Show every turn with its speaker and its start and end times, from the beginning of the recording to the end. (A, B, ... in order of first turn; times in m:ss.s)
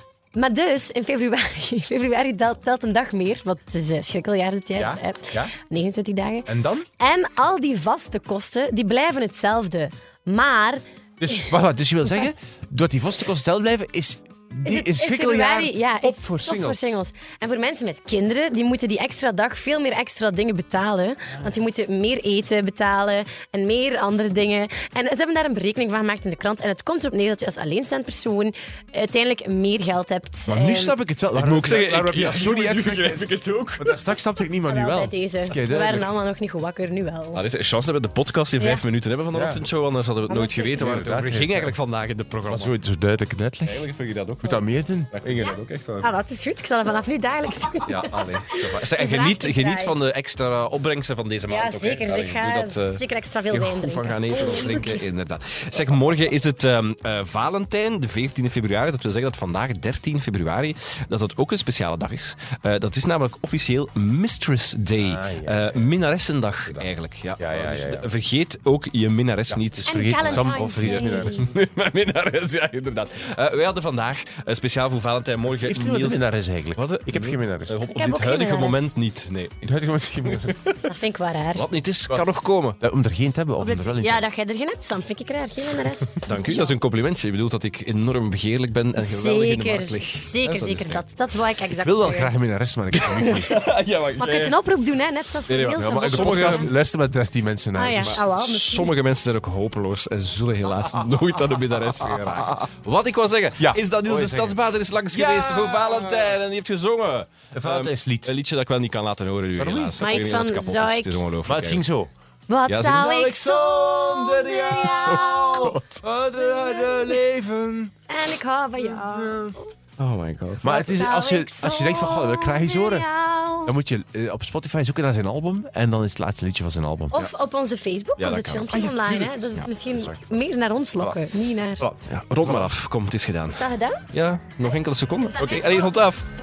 0:00.3-0:11.4 A
0:04.8-0:05.5 B
0:06.5-0:06.9 B
0:11.2-0:17.0 B
0:14.6-0:31.0 A
0:30.5-0:36.1 B
0:31.3-0:34.0 C
0:34.7-0:37.4 A
0:37.3-0:42.8 C
0:38.6-0:38.8 A
0:39.3-0:39.7 B
0:40.3-0:41.1 A
0:40.8-0:41.8 B
0:42.5-0:43.8 B
0:43.7-0:46.2 C
0:44.4-0:45.3 B
0:45.4-0:50.0 A
0:47.8-1:16.2 C
0:51.5-0:55.1 A
1:05.0-1:05.9 B
1:07.4-1:08.1 B
1:09.5-1:11.5 B
1:09.8-1:11.5 A
1:15.5-1:17.8 B
1:16.8-1:19.7 C
1:17.9-1:18.9 A
1:19.6-1:20.8 B
1:20.3-1:20.7 C
1:20.8-1:21.6 A
1:21.6-1:22.8 C
1:22.1-1:24.3 B
1:23.6-1:26.7 A
1:26.2-1:31.0 C
1:29.0-1:32.3 A
1:31.7-1:33.6 B
1:32.9-1:34.6 C
1:34.2-1:36.7 A
1:35.5-1:36.7 C
1:35.8-1:38.2 B
1:37.8-1:39.0 A
1:37.9-1:51.8 C
1:42.0-1:42.6 B
1:43.6-1:44.6 B
1:45.1-1:46.4 B
1:47.5-1:48.4 B
1:49.6-1:50.0 B
1:50.0-1:51.2 A
1:51.4-1:52.1 B
1:52.5-1:55.8 A
1:52.7-1:53.4 C
1:52.9-1:57.9 B
1:54.6-1:56.1 C
1:56.4-1:57.1 A
1:56.8-1:57.1 C
1:58.1-1:59.6 A
1:58.9-1:59.6 B
2:00.0-2:00.7 C
2:00.6-2:03.1 B
2:00.6-2:03.8 A
2:03.6-2:07.2 B
2:07.1-2:11.8 A
2:08.2-2:08.8 C
2:08.7-2:10.2 B
2:11.8-2:16.3 C
2:11.9-2:12.7 B
2:13.5-2:14.0 A
2:15.4-2:15.9 A